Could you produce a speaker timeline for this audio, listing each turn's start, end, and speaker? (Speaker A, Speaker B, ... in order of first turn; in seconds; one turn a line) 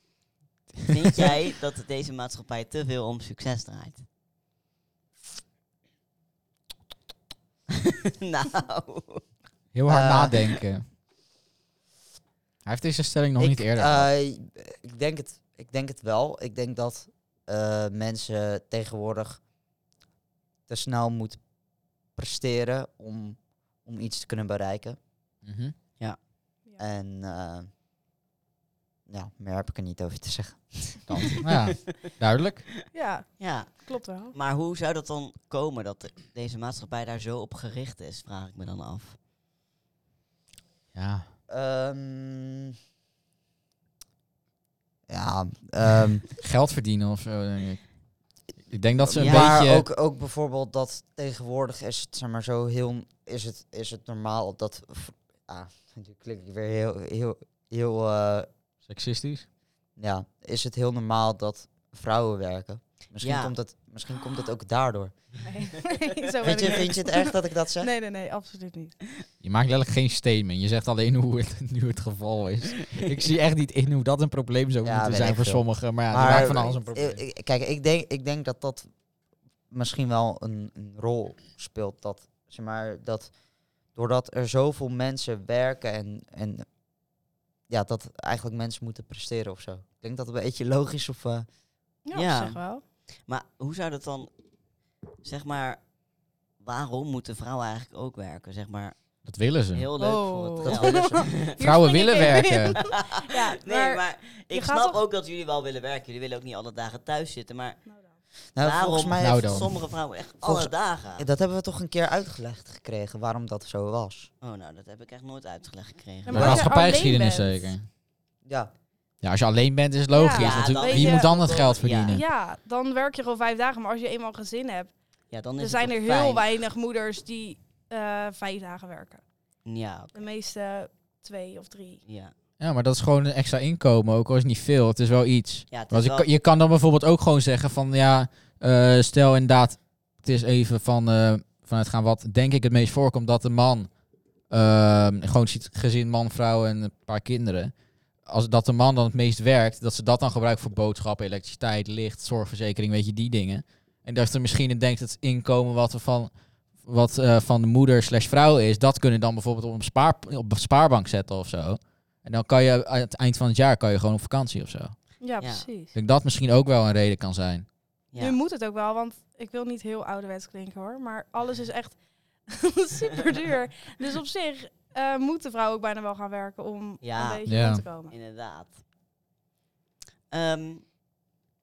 Speaker A: 0.9-4.0
Speaker A: 7.8-9.2
Speaker B: 9.7-10.8
Speaker C: 9.9-10.3
Speaker B: 12.7-14.1
Speaker C: 13.4-19.4
Speaker C: 20.7-21.4
Speaker C: 22.2-25.0
Speaker B: 25.4-25.7
Speaker C: 26.8-27.7
Speaker C: 29.1-31.1
Speaker B: 31.1-32.7
Speaker D: 32.9-34.4
Speaker A: 33.4-39.2
Speaker B: 40.9-41.3
Speaker C: 41.5-42.8
Speaker C: 45.1-46.3
Speaker B: 46.4-47.9
Speaker B: 48.7-49.9
Speaker C: 49.1-58.5
Speaker A: 49.1-49.5
Speaker B: 58.9-59.5
Speaker C: 60.0-65.1
Speaker A: 63.2-63.5
Speaker D: 65.4-69.0
Speaker C: 66.4-67.9
Speaker B: 69.4-77.2
Speaker C: 74.8-78.9
Speaker C: 79.7-83.3
Speaker C: 84.0-86.7
Speaker C: 87.7-91.5
Speaker D: 92.0-92.8
Speaker A: 92.1-94.3
Speaker A: 95.2-95.8
Speaker A: 96.6-99.0
Speaker B: 99.2-99.9
Speaker A: 99.7-101.5
Speaker D: 100.0-105.0
Speaker C: 100.6-101.4
Speaker B: 101.6-102.8
Speaker A: 102.8-107.8
Speaker D: 107.9-108.1
Speaker C: 108.5-109.8
Speaker A: 108.6-111.3
Speaker B: 109.2-109.7
Speaker C: 110.4-114.3
Speaker A: 114.4-116.7
Speaker D: 116.2-117.7
Speaker B: 116.3-117.9
Speaker C: 118.5-118.7
Speaker B: 119.2-122.2
Speaker D: 120.1-121.3
Speaker A: 120.3-122.2
Speaker D: 122.1-124.9
Speaker A: 125.3-126.5
Speaker D: 125.6-129.2
Speaker A: 129.7-130.2
Speaker D: 130.1-132.0
Speaker A: 132.1-132.3
Speaker B: 132.6-143.9
Speaker A: 135.7-136.3
Speaker B: 144.5-147.7
Speaker B: 148.2-165.1
Speaker D: 165.2-165.9
Speaker A: 165.4-165.7
Speaker B: 165.9-167.7
Speaker A: 168.1-168.4
Speaker D: 168.2-178.2
Speaker A: 177.0-177.4
Speaker B: 177.5-177.8
Speaker A: 178.0-178.8
Speaker A: 180.3-180.8